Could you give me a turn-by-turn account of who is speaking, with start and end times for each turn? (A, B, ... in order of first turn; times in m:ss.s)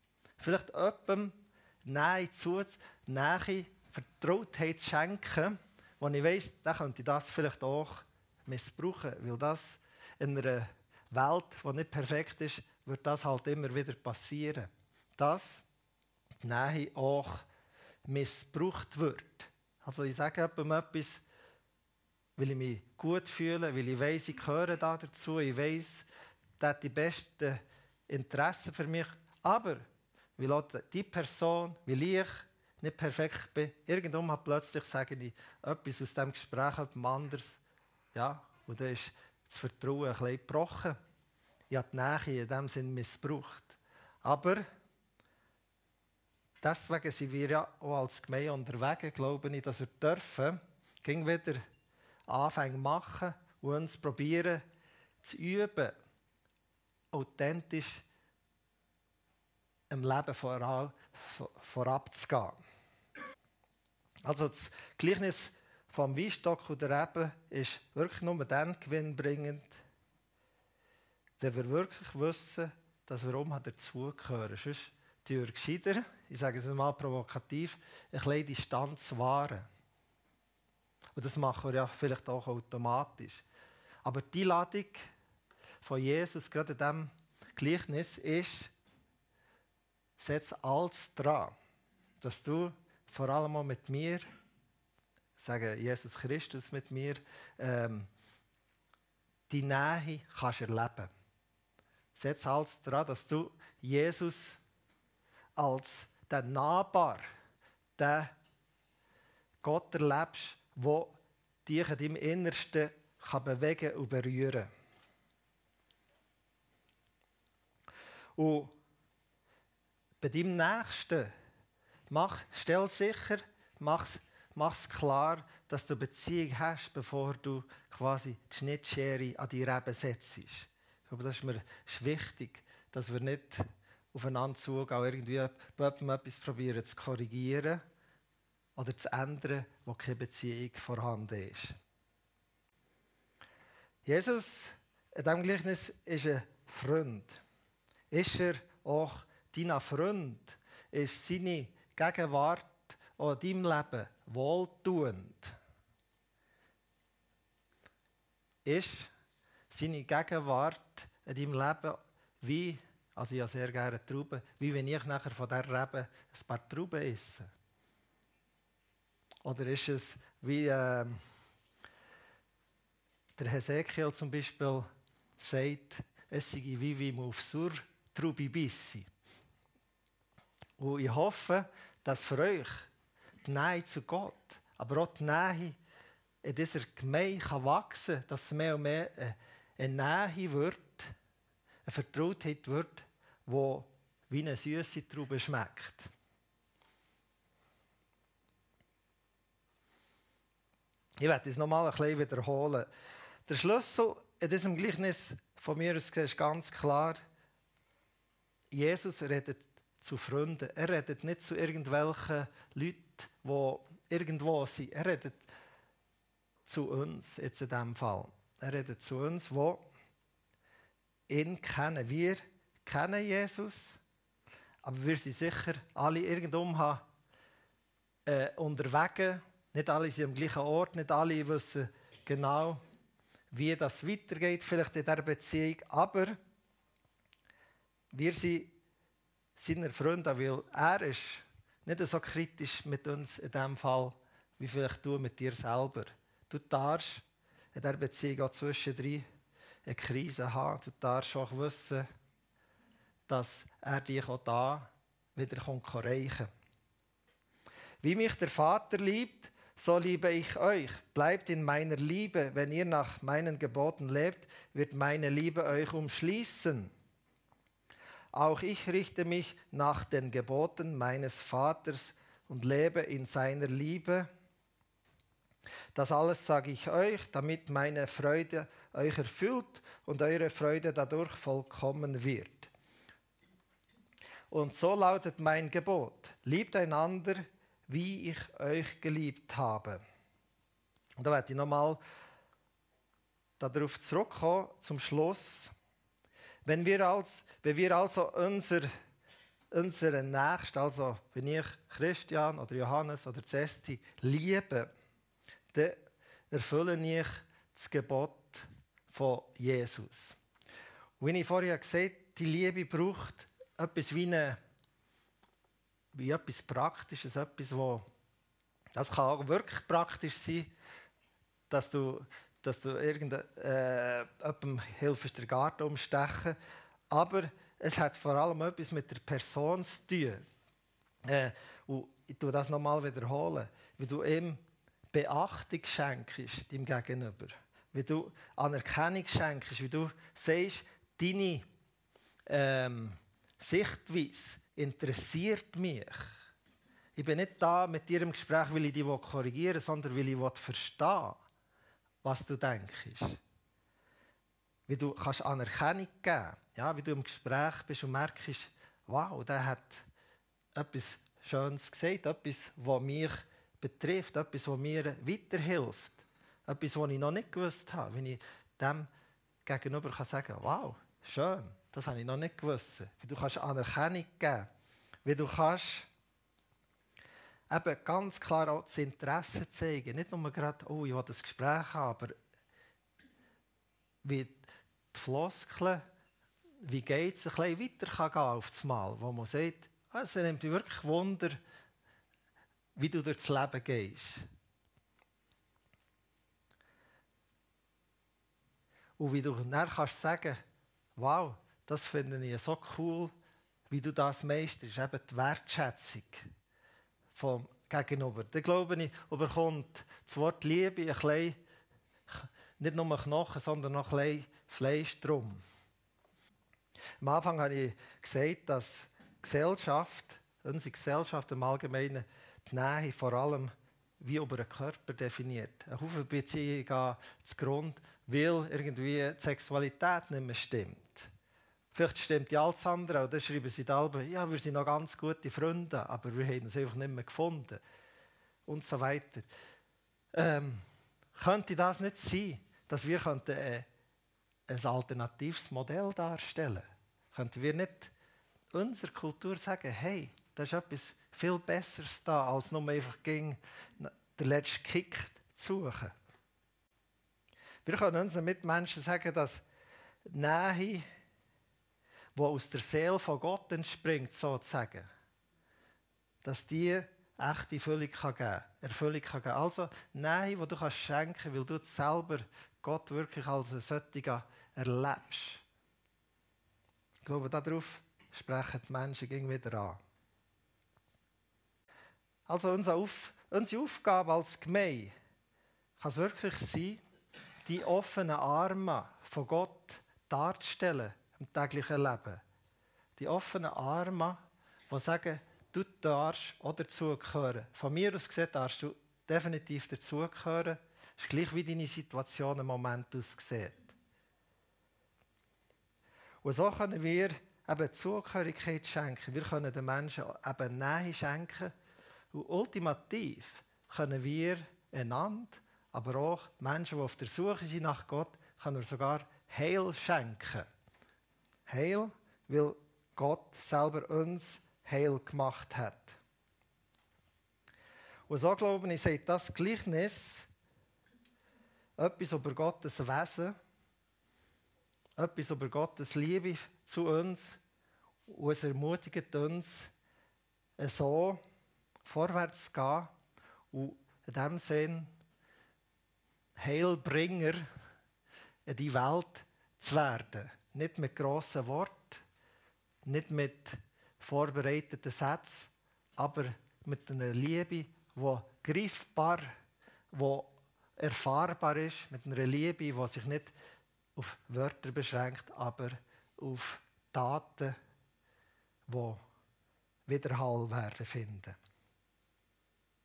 0:00.4-0:15.6 A
0:16.4-0:17.4 A
0:18.0-0:21.2 A
0:22.4-0:26.1 A
0:26.6-0:29.8 A
0:30.4-0:37.6 A
0:38.1-0:41.0 A
0:41.7-0:44.6 A
0:46.6-0:51.6 A
0:52.3-0:54.6 A
0:55.2-0:55.9 A
0:57.1-0:58.0 A
0:59.9-1:02.6 A
1:04.2-1:09.8 A
1:11.4-1:19.7 A
1:21.2-1:23.4 A
1:24.0-1:25.1 A
1:25.8-1:28.7 A
1:30.2-1:31.5 A
1:32.2-1:34.3 A
1:35.4-1:38.1 A
1:39.5-1:41.1 A
1:42.1-1:44.6 A
1:45.6-1:47.3 A
1:48.0-1:48.3 A
1:49.6-1:51.1 A
1:51.6-1:54.7 A
1:58.4-1:58.7 A
2:00.2-2:01.3 A
2:02.1-2:17.8 A
2:18.8-2:21.8 A
2:24.0-2:27.4 A
2:28.1-2:35.6 A
2:38.6-2:39.1 A
2:39.7-2:47.5 A
2:49.4-2:51.2 A
2:53.4-2:54.9 A
2:55.4-2:59.1 A
3:00.8-3:02.9 A
3:03.4-3:05.8 A
3:06.4-3:11.1 A
3:11.8-3:16.1 A
3:21.2-3:22.9 A
3:23.5-3:27.2 A
3:28.7-3:35.5 A
3:36.6-3:39.8 A
3:41.3-3:44.0 A
3:44.8-3:47.0 A
3:48.2-3:52.8 A
3:53.5-3:56.4 A
3:58.1-3:58.7 A
3:59.6-4:09.2 A
4:09.8-4:12.0 A
4:13.3-4:16.5 A
4:18.0-4:26.9 A
4:28.3-4:34.3 A
4:35.9-4:42.7 A
4:44.5-4:50.0 A
4:51.2-4:52.0 A
4:53.6-4:55.7 A
4:56.6-4:58.9 A
4:59.7-5:04.9 A
5:05.7-5:06.0 A
5:06.5-5:10.4 A
5:11.2-5:14.6 A
5:16.1-5:18.0 A
5:18.9-5:20.7 A
5:21.7-5:26.6 A
5:27.1-5:30.4 A
5:31.2-5:34.6 A
5:35.1-5:41.6 A
5:42.5-5:46.4 A
5:47.2-5:51.4 A
5:52.2-5:53.4 A
5:54.9-6:00.0 A
6:00.7-6:09.1 A
6:09.6-6:14.7 A
6:15.2-6:16.1 A
6:17.7-6:22.4 A
6:24.2-6:26.0 A
6:26.8-6:31.6 A
6:33.0-6:34.4 A
6:39.2-6:40.6 A
6:41.2-6:43.3 A
6:43.9-6:46.4 A
6:47.3-6:51.6 A
6:52.3-6:55.6 A
6:57.2-7:11.3 A
7:11.9-7:17.8 A
7:18.6-7:19.5 A
7:20.3-7:20.8 A
7:21.3-7:23.8 A
7:24.7-7:28.1 A
7:28.7-7:36.1 A
7:37.8-7:39.6 A
7:40.2-7:41.0 A
7:42.3-7:45.1 A
7:46.4-7:55.6 A
7:57.2-8:00.0 A
8:02.5-8:05.1 A
8:06.0-8:07.0 A
8:07.6-8:12.4 A
8:13.2-8:23.9 A
8:26.4-8:31.7 A
8:32.3-8:40.7 A
8:41.7-8:46.2 A
8:48.3-8:50.5 A
8:52.0-8:53.6 A
8:55.2-8:57.6 A
8:58.3-8:59.9 A
9:00.8-9:01.4 A
9:02.0-9:03.1 A
9:03.7-9:05.1 A
9:06.6-9:07.6 A
9:08.6-9:12.2 A
9:13.0-9:19.5 A
9:20.1-9:23.5 A
9:24.2-9:27.7 A
9:28.9-9:29.2 A
9:30.1-9:31.6 A